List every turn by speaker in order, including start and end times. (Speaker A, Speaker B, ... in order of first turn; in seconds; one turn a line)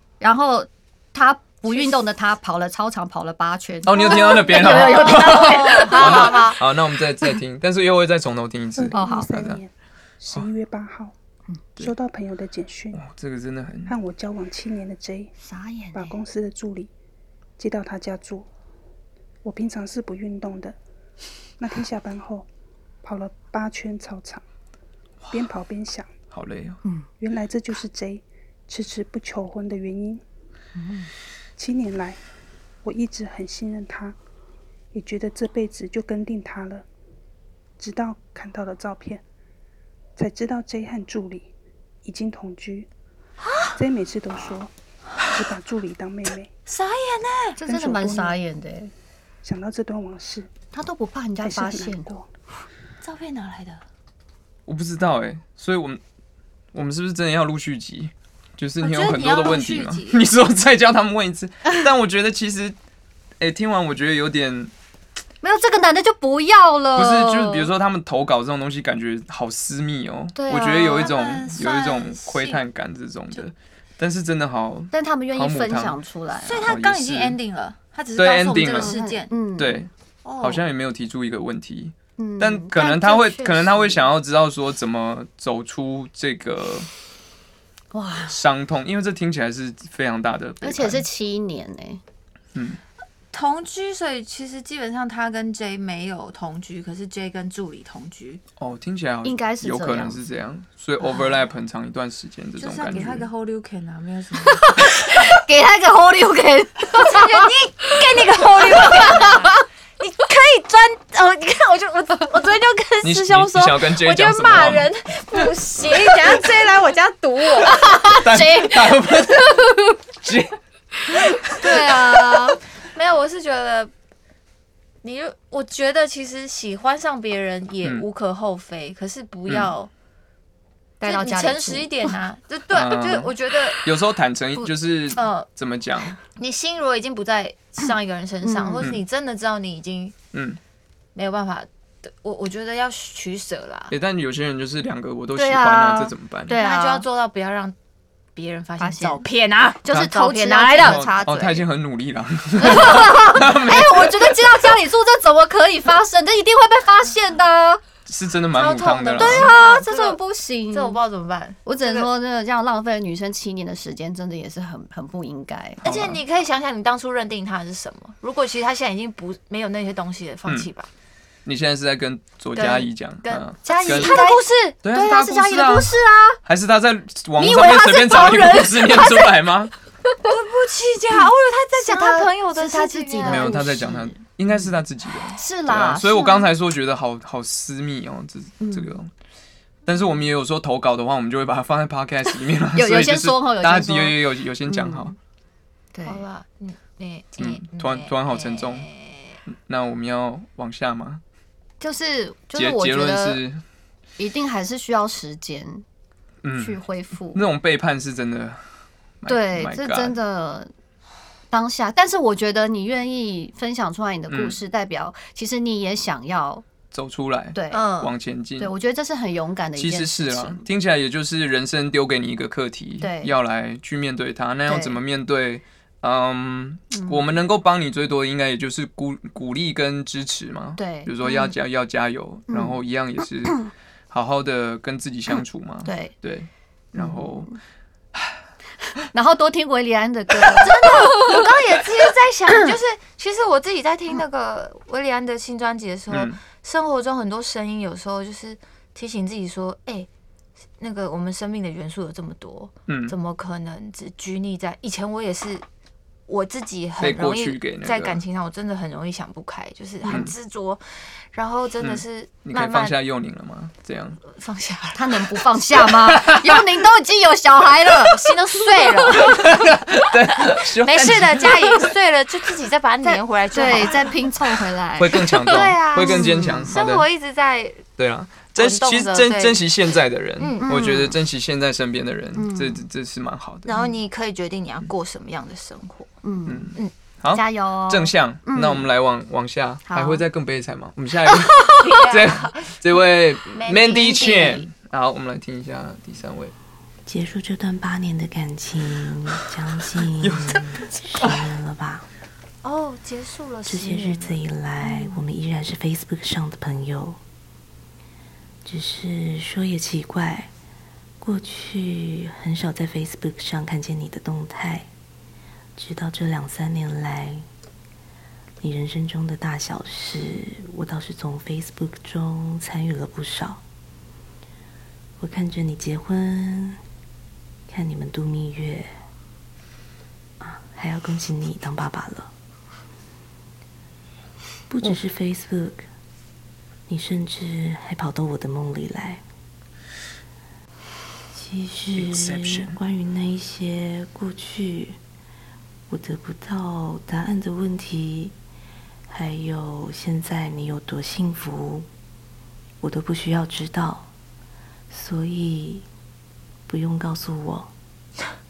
Speaker A: 0.2-6.5
Speaker B: 1.7-2.0
Speaker C: 3.8-9.6
Speaker B: 4.0-6.6
Speaker D: 8.8-11.1
Speaker A: 8.9-9.3
Speaker D: 11.8-13.0
Speaker C: 12.9-13.9
Speaker D: 13.9-15.3
Speaker A: 15.4-16.2
Speaker D: 15.9-16.9
Speaker D: 17.6-18.5
Speaker D: 19.4-20.8
Speaker D: 21.6-22.5
Speaker D: 23.0-24.4
Speaker D: 25.3-26.1
Speaker C: 26.3-26.8
Speaker D: 27.2-30.2
Speaker A: 30.8-31.1
Speaker D: 31.6-32.2
Speaker D: 32.8-34.2
Speaker D: 34.9-36.9
Speaker D: 37.8-39.2
Speaker D: 40.2-41.5
Speaker D: 42.0-42.9
Speaker B: 43.4-43.8
Speaker D: 43.7-44.7
Speaker D: 45.3-46.5
Speaker B: 46.7-48.3
Speaker A: 47.6-48.9
Speaker D: 49.4-50.5
Speaker A: 50.7-52.1
Speaker D: 51.4-52.3
Speaker B: 53.0-53.8
Speaker C: 54.7-56.0
Speaker C: 56.7-62.8
Speaker B: 58.8-60.3
Speaker C: 63.4-64.7
Speaker A: 65.4-67.7
Speaker C: 67.0-76.0
Speaker A: 70.3-71.2
Speaker B: 70.6-72.6
Speaker A: 74.9-76.6
Speaker B: 76.5-79.4
Speaker C: 76.6-77.4
Speaker C: 78.2-79.0
Speaker A: 78.6-79.8
Speaker C: 79.5-86.9
Speaker B: 80.2-80.7
Speaker A: 82.2-84.1
Speaker A: 87.9-88.4
Speaker C: 88.3-91.1
Speaker A: 90.6-92.0
Speaker C: 92.5-92.8
Speaker B: 93.3-98.4
Speaker C: 98.6-103.3
Speaker A: 99.2-100.2
Speaker A: 101.0-101.3
Speaker B: 102.6-105.0
Speaker A: 104.5-107.5
Speaker B: 106.9-118.0
Speaker A: 108.6-109.6
Speaker C: 113.0-114.9
Speaker A: 117.7-120.0
Speaker C: 118.1-119.5
Speaker C: 120.2-120.6
Speaker C: 121.2-121.6
Speaker A: 121.5-122.6
Speaker B: 121.6-121.9
Speaker B: 122.9-123.9
Speaker B: 125.0-129.9
Speaker A: 131.0-132.1
Speaker B: 131.0-133.8
Speaker C: 132.7-136.2
Speaker B: 135.1-135.5
Speaker B: 136.2-140.2
Speaker A: 138.4-138.9
Speaker C: 140.3-140.6
Speaker B: 141.2-143.9
Speaker C: 143.9-146.6
Speaker A: 145.3-147.1
Speaker B: 146.6-147.8
Speaker B: 148.4-151.4
Speaker A: 148.8-149.2
Speaker A: 149.8-151.6
Speaker C: 150.7-154.8
Speaker A: 152.6-157.8
Speaker C: 158.1-159.5
Speaker B: 158.5-160.2
Speaker A: 159.1-161.0
Speaker B: 160.7-162.1
Speaker A: 161.7-165.8
Speaker C: 165.8-166.2
Speaker B: 165.8-170.9
Speaker C: 171.4-174.3
Speaker B: 172.6-174.8
Speaker A: 173.7-176.4
Speaker C: 174.8-175.9
Speaker C: 176.4-179.7
Speaker A: 177.4-179.3
Speaker B: 180.2-183.8
Speaker A: 181.8-184.1
Speaker C: 183.2-189.1
Speaker A: 185.4-186.5
Speaker A: 188.6-189.0
Speaker C: 189.9-195.1
Speaker A: 192.3-195.1
Speaker A: 195.9-196.2
Speaker B: 196.1-199.4
Speaker C: 197.4-198.9
Speaker C: 199.5-201.2
Speaker A: 201.8-203.4
Speaker C: 202.5-203.6
Speaker A: 204.2-205.8
Speaker C: 206.4-208.6
Speaker A: 206.6-207.4
Speaker C: 209.2-210.2
Speaker A: 209.3-210.7
Speaker A: 211.5-216.7
Speaker C: 214.3-214.6
Speaker C: 216.9-218.7
Speaker A: 217.5-217.8
Speaker B: 217.7-218.1
Speaker A: 218.6-220.6
Speaker C: 219.8-237.5
Speaker A: 223.0-223.3
Speaker A: 224.7-225.0
Speaker A: 226.9-227.2
Speaker A: 230.8-231.6
Speaker A: 232.5-232.8
Speaker A: 235.3-236.1
Speaker A: 237.0-237.6
Speaker A: 239.1-241.4
Speaker B: 240.6-250.1
Speaker C: 246.1-246.4
Speaker B: 250.8-255.7
Speaker C: 252.9-253.2
Speaker B: 256.3-263.0
Speaker C: 257.0-258.2
Speaker C: 260.1-260.3
Speaker C: 261.8-264.2
Speaker B: 264.2-265.6
Speaker A: 264.9-269.7
Speaker B: 268.0-269.4
Speaker C: 269.2-271.7
Speaker B: 270.8-274.3
Speaker A: 273.0-276.8
Speaker C: 275.0-277.1
Speaker B: 275.3-277.9
Speaker C: 278.0-283.7
Speaker B: 278.5-279.8
Speaker B: 280.4-281.0
Speaker A: 280.6-281.2
Speaker A: 282.4-282.8
Speaker B: 283.7-286.1
Speaker A: 286.2-286.7
Speaker C: 286.5-296.5
Speaker A: 287.3-288.9
Speaker A: 289.9-290.2
Speaker B: 291.8-292.8
Speaker B: 293.5-294.7
Speaker E: 297.1-302.1
Speaker C: 300.2-300.6
Speaker B: 302.6-304.4
Speaker E: 303.6-307.2
Speaker A: 304.8-305.1
Speaker E: 308.6-310.5
Speaker E: 311.2-314.9
Speaker E: 315.8-317.5
Speaker E: 318.6-323.6
Speaker E: 325.2-326.8
Speaker E: 327.7-328.9
Speaker E: 330.4-332.3
Speaker E: 334.7-335.9
Speaker E: 336.9-339.2
Speaker E: 341.3-345.0
Speaker C: 341.9-342.8
Speaker E: 345.9-348.4
Speaker E: 349.1-351.9
Speaker E: 352.8-354.1
Speaker E: 354.9-355.9
Speaker E: 356.7-357.7